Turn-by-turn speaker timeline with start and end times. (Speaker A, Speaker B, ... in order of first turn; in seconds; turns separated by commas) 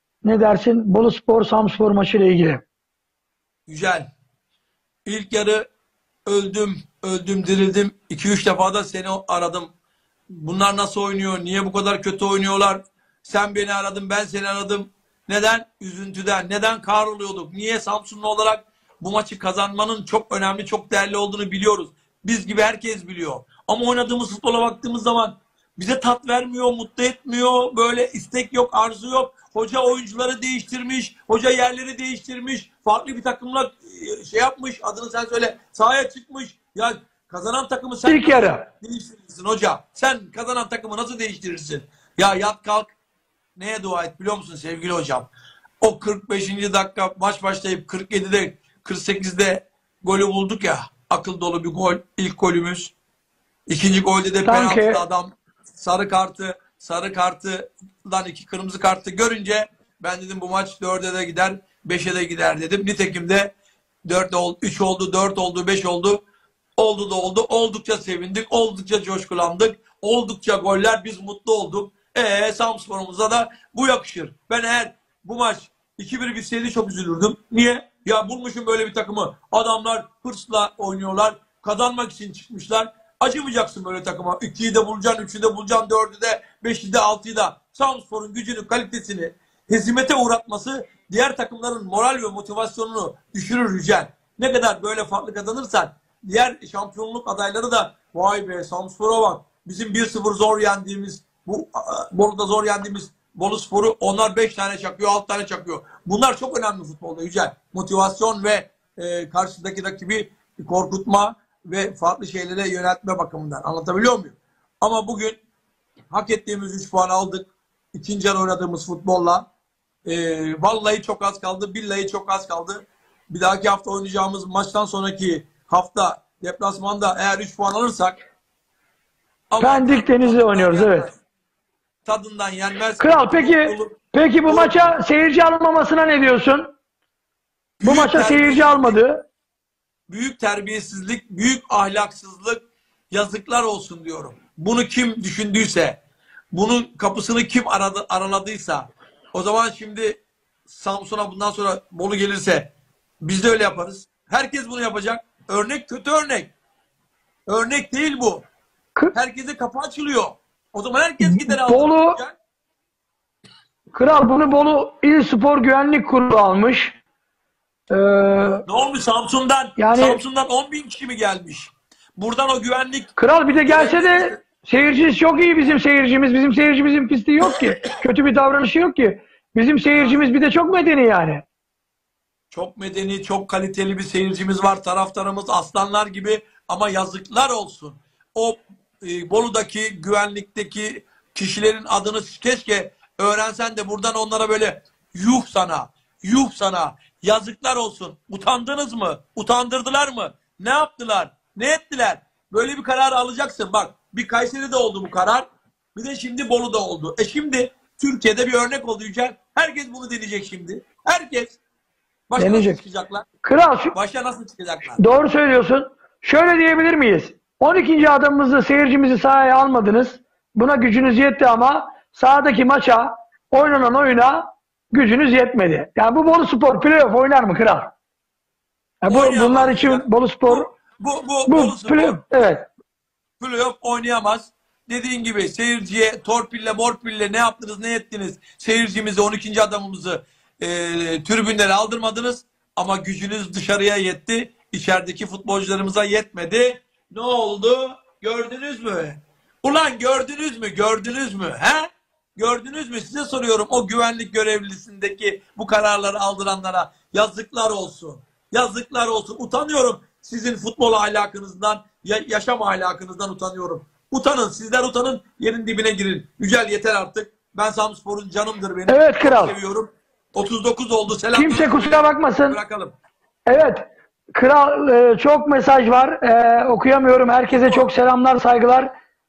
Speaker A: 0.2-2.6, Speaker B: 3.7-4.0, Speaker B: 5.0-5.7, Speaker B: 6.2-9.7, Speaker B: 10.3-42.9, Speaker A: 38.0-38.6, Speaker B: 43.5-45.3, Speaker B: 45.8-52.9, Speaker B: 53.7-63.5, Speaker A: 54.4-55.0, Speaker B: 64.0-66.2, Speaker B: 66.8-115.4, Speaker B: 116.1-119.5, Speaker B: 120.0-128.2, Speaker B: 129.5-131.2, Speaker A: 129.6-131.1, Speaker B: 132.0-135.0, Speaker A: 133.0-136.7, Speaker B: 137.8-139.0, Speaker A: 137.8-139.2, Speaker B: 140.1-146.0, Speaker B: 146.5-156.5, Speaker B: 157.5-158.4, Speaker B: 159.1-162.4, Speaker A: 161.2-162.2, Speaker A: 163.9-167.0, Speaker A: 167.9-168.6, Speaker B: 168.7-174.4, Speaker A: 169.8-170.2, Speaker A: 173.2-181.4, Speaker B: 179.9-180.3, Speaker B: 182.5-211.6, Speaker B: 212.3-213.2, Speaker A: 212.4-212.8, Speaker A: 213.4-213.9, Speaker B: 213.9-215.0, Speaker A: 215.0-227.9, Speaker A: 229.0-230.7, Speaker B: 229.1-232.2, Speaker A: 231.5-232.7, Speaker B: 233.4-272.9, Speaker A: 268.9-269.6, Speaker A: 271.3-272.6, Speaker A: 273.5-278.9, Speaker B: 277.5-277.9